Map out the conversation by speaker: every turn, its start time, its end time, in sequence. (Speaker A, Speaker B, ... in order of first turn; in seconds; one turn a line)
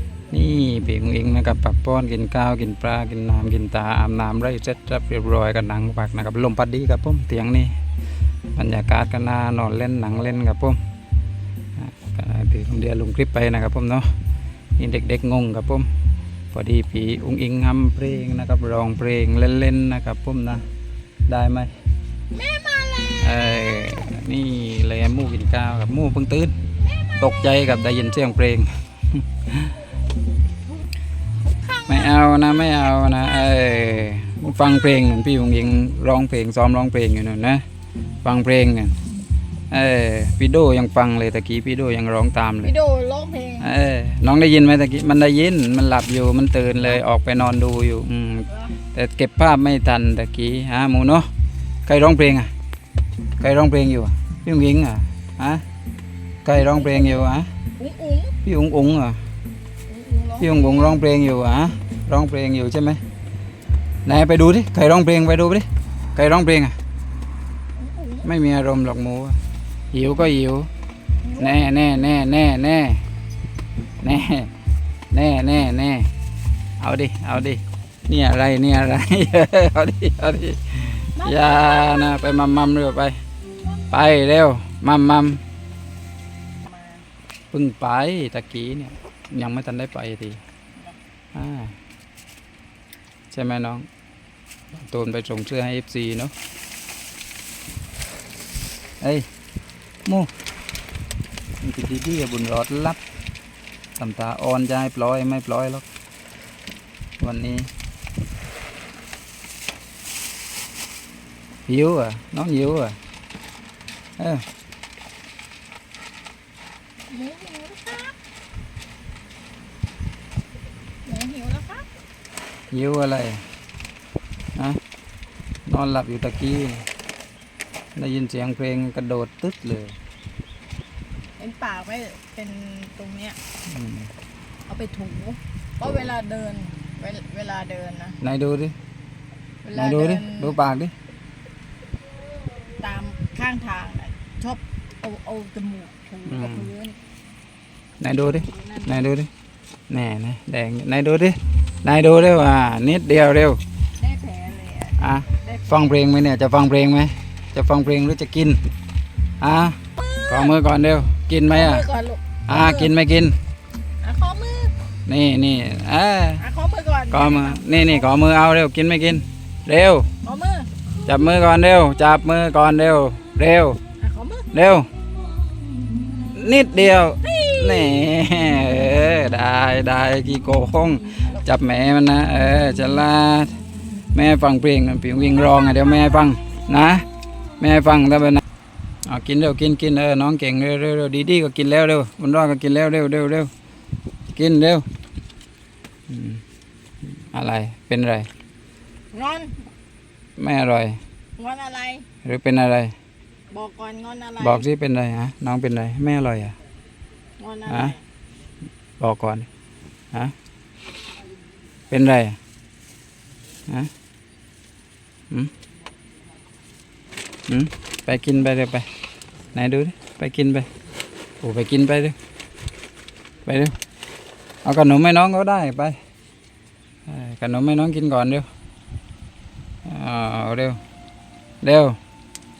Speaker A: 0.3-7.7
Speaker A: 8.5-10.8
Speaker A: 11.8-14.1
Speaker A: 14.8-15.9
Speaker A: 16.5-20.6
Speaker A: 21.3-21.7
Speaker B: 22.3-23.9
Speaker A: 23.2-26.6
Speaker B: 26.8-27.7
Speaker A: 27.1-29.8
Speaker B: 30.8-32.3
Speaker A: 31.9-37.6
Speaker A: 38.2-39.0
Speaker A: 39.7-42.8
Speaker B: 42.6-43.7
Speaker A: 43.6-51.3
Speaker B: 48.5-48.8
Speaker A: 51.9-52.5
Speaker A: 53.4-55.6
Speaker A: 56.4-57.5
Speaker B: 56.5-57.2
Speaker B: 57.8-58.4
Speaker A: 58.4-59.2
Speaker B: 59.9-61.0
Speaker A: 60.4-63.0
Speaker A: 64.0-66.8
Speaker B: 67.8-68.3
Speaker A: 68.2-69.4
Speaker A: 69.9-70.7
Speaker B: 71.2-71.6
Speaker A: 71.4-73.0
Speaker A: 74.0-74.5
Speaker A: 75.1-76.1
Speaker A: 76.8-83.2
Speaker B: 81.1-82.2
Speaker A: 83.9-85.4
Speaker B: 86.6-87.0
Speaker A: 87.5-90.4
Speaker A: 91.3-91.8
Speaker A: 93.3-93.9
Speaker A: 94.7-96.3
Speaker A: 99.0-99.3
Speaker A: 100.0-100.3
Speaker A: 101.6-103.0
Speaker A: 104.0-105.9
Speaker A: 107.2-107.7
Speaker A: 111.7-113.0
Speaker A: 114.2-114.5
Speaker B: 117.1-118.2
Speaker B: 121.0-121.9
Speaker A: 122.7-123.4
Speaker A: 125.7-126.9
Speaker A: 128.0-129.9
Speaker B: 131.4-133.4
Speaker A: 133.7-134.1
Speaker B: 134.7-138.2
Speaker A: 138.2-138.8
Speaker B: 139.6-140.6
Speaker A: 139.7-140.9
Speaker B: 142.8-147.0
Speaker A: 146.3-146.7
Speaker A: 148.0-149.3
Speaker B: 148.2-149.1
Speaker A: 149.9-153.6
Speaker B: 154.0-156.0
Speaker A: 155.0-158.6
Speaker A: 159.4-161.9
Speaker B: 160.0-160.6
Speaker B: 161.5-162.9
Speaker A: 162.5-163.4
Speaker B: 164.0-164.7
Speaker A: 165.1-166.4
Speaker B: 166.4-168.1
Speaker A: 167.1-170.1
Speaker B: 170.2-170.7
Speaker A: 171.1-173.8
Speaker B: 174.0-174.5
Speaker A: 174.5-174.9
Speaker A: 176.3-183.6
Speaker B: 177.2-178.1
Speaker A: 184.1-187.1
Speaker A: 187.6-188.4
Speaker A: 189.1-193.5
Speaker A: 194.3-194.9
Speaker A: 196.1-196.4
Speaker A: 197.2-198.3
Speaker B: 199.1-199.6
Speaker A: 200.4-201.0
Speaker B: 201.4-202.1
Speaker A: 202.2-202.9
Speaker B: 203.5-204.7
Speaker A: 204.4-206.6
Speaker B: 207.4-208.0
Speaker A: 207.7-208.0
Speaker A: 209.0-209.5
Speaker A: 211.9-212.4
Speaker A: 217.5-218.9
Speaker A: 219.5-220.7
Speaker A: 221.4-222.2
Speaker A: 223.5-223.8
Speaker A: 224.6-226.0
Speaker A: 227.1-228.5
Speaker A: 229.8-230.8
Speaker A: 231.6-232.0